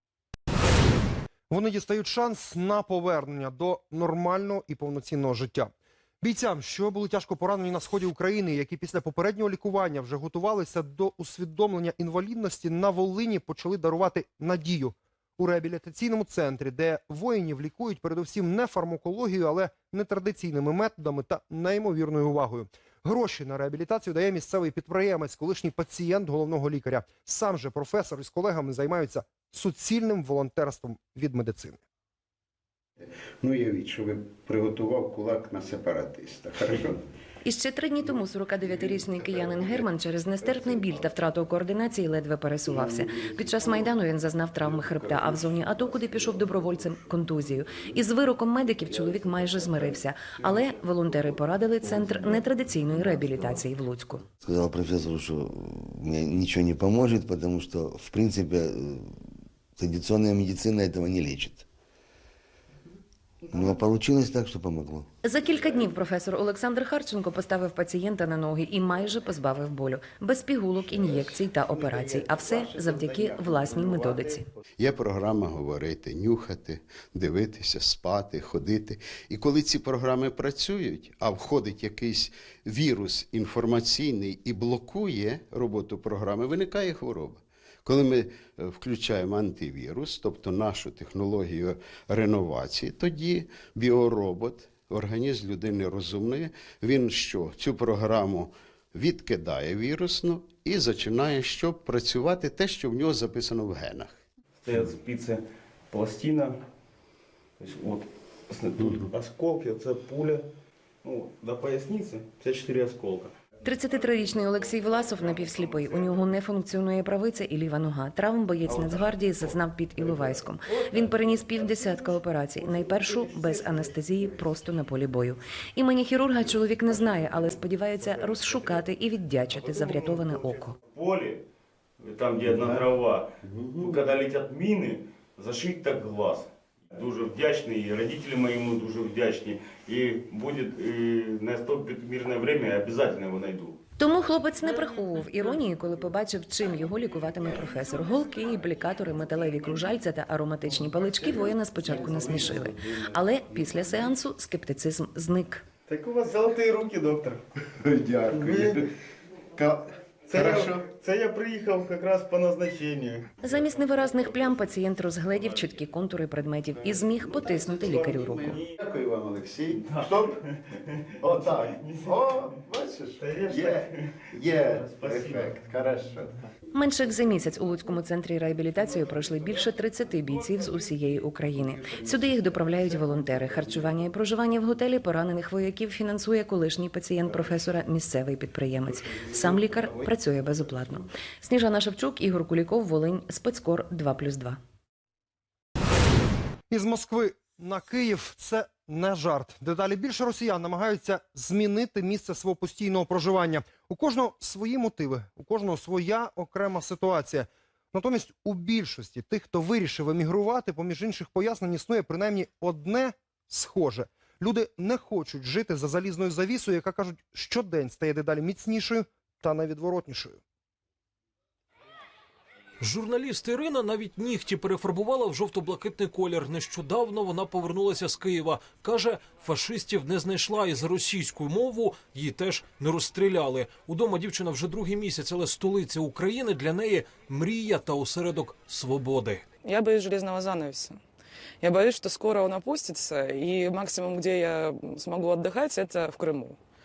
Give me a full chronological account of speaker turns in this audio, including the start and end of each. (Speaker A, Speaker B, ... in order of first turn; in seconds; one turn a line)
Speaker A: 1.5-31.8
Speaker B: 33.0-37.0
Speaker C: 37.4-54.2
Speaker B: 38.6-39.9
Speaker B: 40.4-41.1
Speaker B: 42.7-43.9
Speaker B: 44.6-47.1
Speaker B: 49.0-50.4
Speaker D: 54.4-61.6
Speaker D: 63.5-65.0
Speaker C: 65.2-74.4
Speaker B: 70.9-104.2
Speaker E: 104.6-106.6
Speaker E: 107.6-110.5
Speaker E: 111.0-113.3
Speaker C: 113.6-130.7
Speaker E: 127.1-128.9
Speaker E: 129.5-131.4
Speaker E: 132.0-143.8
Speaker B: 132.4-132.9
Speaker B: 133.4-134.0
Speaker C: 144.0-155.6
Speaker E: 151.8-152.7
Speaker B: 151.9-152.6
Speaker E: 155.9-157.4
Speaker B: 157.8-158.9
Speaker E: 158.3-158.8
Speaker B: 159.6-160.9
Speaker E: 160.3-163.3
Speaker C: 163.4-168.6
Speaker B: 166.8-170.3
Speaker E: 167.6-168.8
Speaker E: 169.7-172.6
Speaker B: 171.2-176.3
Speaker E: 173.2-175.9
Speaker C: 176.7-194.6
Speaker A: 196.7-220.4
Speaker F: 222.8-239.4
Speaker G: 239.6-241.0
Speaker G: 241.6-246.6